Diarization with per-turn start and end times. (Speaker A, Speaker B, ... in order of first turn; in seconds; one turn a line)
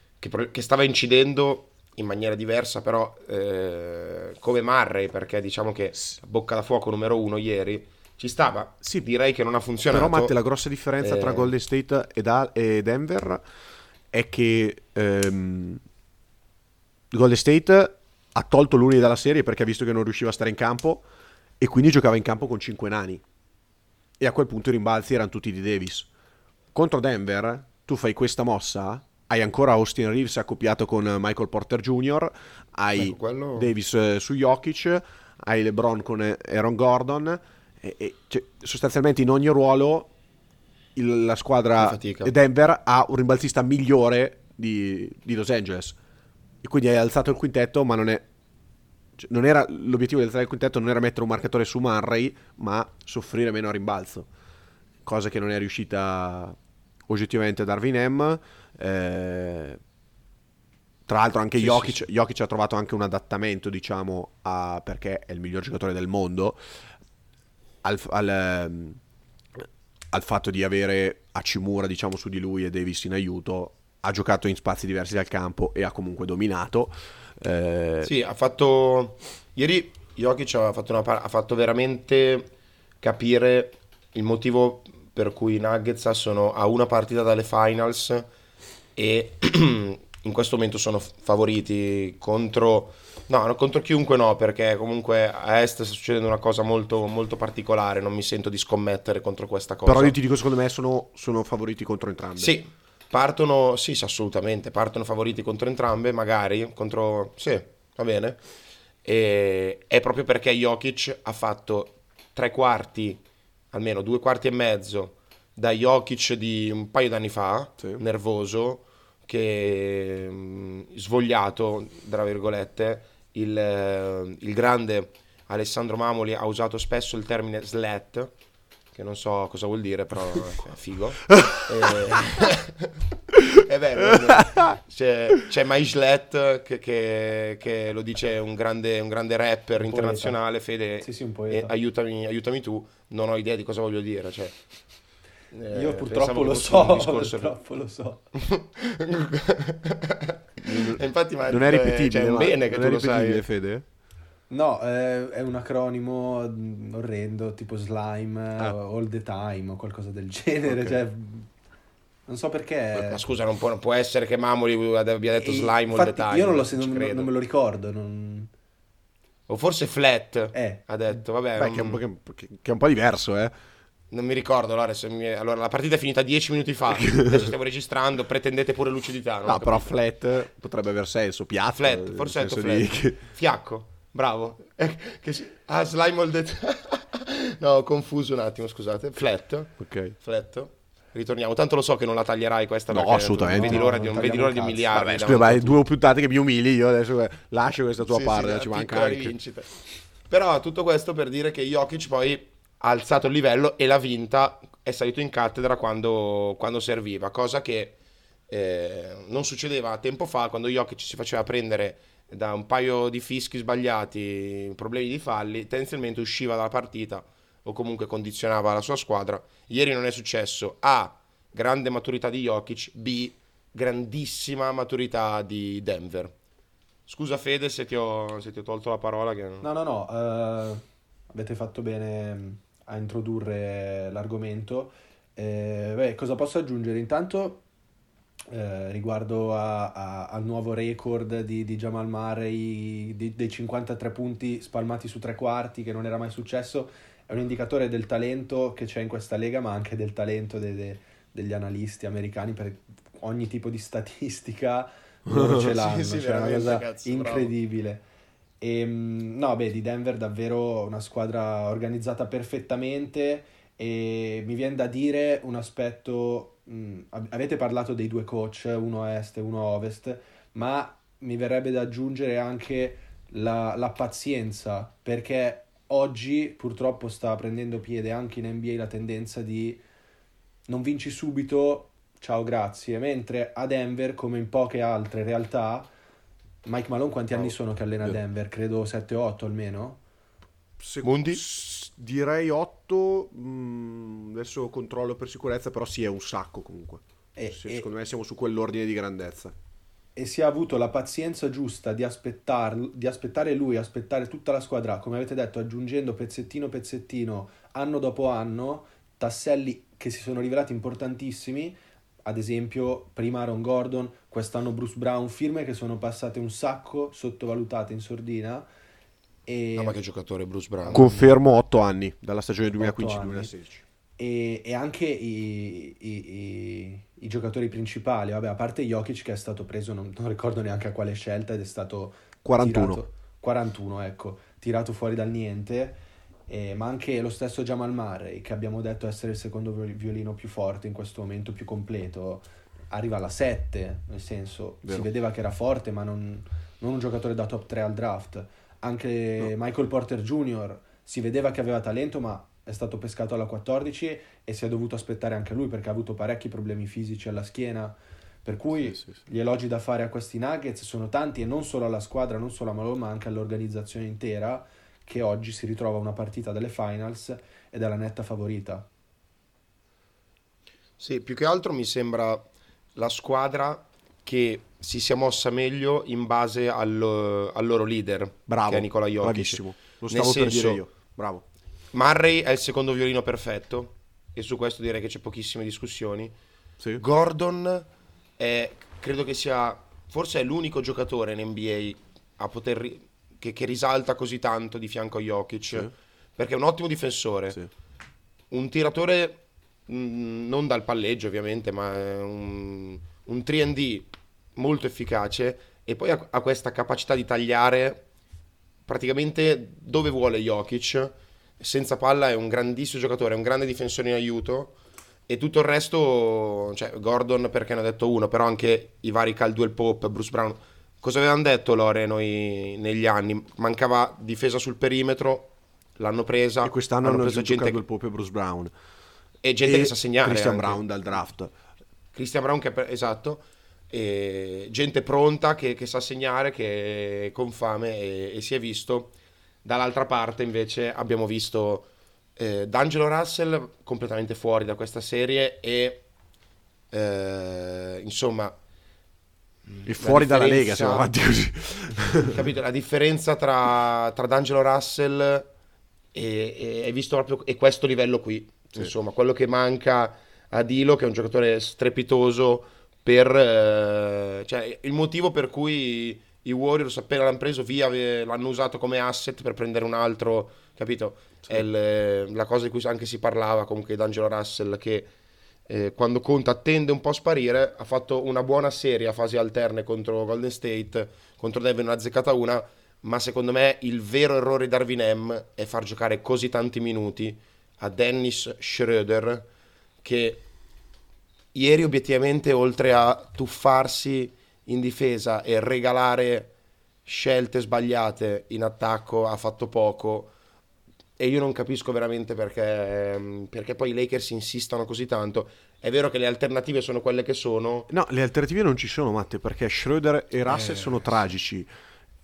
Speaker A: 0.2-10.3
Speaker B: 9.9-13.4
Speaker A: 11.0-11.5
Speaker B: 14.1-15.8
Speaker B: 17.1-21.0
Speaker B: 21.6-23.2
Speaker B: 24.2-26.1
Speaker B: 26.7-40.1
Speaker A: 33.0-33.7
Speaker B: 40.9-46.0
Speaker A: 41.8-42.3
Speaker B: 46.6-48.2
Speaker B: 49.2-54.3
Speaker B: 55.0-56.6
Speaker B: 57.1-59.8
Speaker B: 61.1-66.6
Speaker A: 61.6-61.9
Speaker B: 67.8-69.0
Speaker B: 69.6-78.1
Speaker A: 78.0-88.3
Speaker A: 89.0-100.1
Speaker B: 99.8-102.5
Speaker A: 102.4-108.4
Speaker A: 109.0-113.2
Speaker A: 113.7-128.3
Speaker A: 128.9-144.6
Speaker B: 134.1-134.8
Speaker C: 139.9-140.4
Speaker C: 141.0-141.7
Speaker A: 145.5-147.6
Speaker C: 145.7-148.2
Speaker A: 148.3-153.4
Speaker B: 150.6-153.8
Speaker C: 154.5-161.5
Speaker B: 160.7-161.0
Speaker C: 162.3-163.2
Speaker A: 162.9-167.3
Speaker C: 165.4-168.5
Speaker A: 169.5-172.0
Speaker C: 170.5-170.9
Speaker B: 171.6-173.5
Speaker A: 174.1-179.9
Speaker B: 177.0-177.5
Speaker B: 179.4-183.2
Speaker A: 181.8-195.8
Speaker B: 189.8-190.2
Speaker B: 192.9-193.8
Speaker C: 193.5-195.0
Speaker B: 194.9-199.3
Speaker A: 198.0-208.0
Speaker A: 208.5-226.3
Speaker A: 227.1-229.7
Speaker C: 229.6-237.6
Speaker C: 238.5-258.0
Speaker B: 255.3-255.7
Speaker A: 255.5-257.5
Speaker C: 258.6-279.8
Speaker C: 280.7-285.9
Speaker C: 286.6-290.0
Speaker B: 287.3-288.2
Speaker B: 290.8-299.5
Speaker A: 291.0-291.4
Speaker C: 297.3-297.9
Speaker C: 300.1-318.6
Speaker C: 319.5-320.0
Speaker A: 319.8-321.2
Speaker B: 320.9-323.8
Speaker C: 322.7-323.5
Speaker C: 324.2-368.9
Speaker B: 332.4-333.0
Speaker A: 371.0-380.8
Speaker B: 378.5-381.4
Speaker A: 381.9-386.3
Speaker A: 387.0-397.6
Speaker A: 398.5-408.1
Speaker A: 408.9-414.8
Speaker A: 415.3-427.8
Speaker B: 426.6-428.7
Speaker A: 429.4-430.8
Speaker B: 429.6-431.5
Speaker A: 432.1-446.1
Speaker A: 446.9-448.5
Speaker A: 449.7-451.1
Speaker B: 449.9-452.4
Speaker A: 452.2-455.5
Speaker A: 456.1-475.1
Speaker A: 475.7-489.5
Speaker A: 490.0-490.4
Speaker A: 491.5-496.5
Speaker A: 497.1-500.3
Speaker A: 501.2-507.9
Speaker B: 507.9-511.7
Speaker A: 510.5-511.0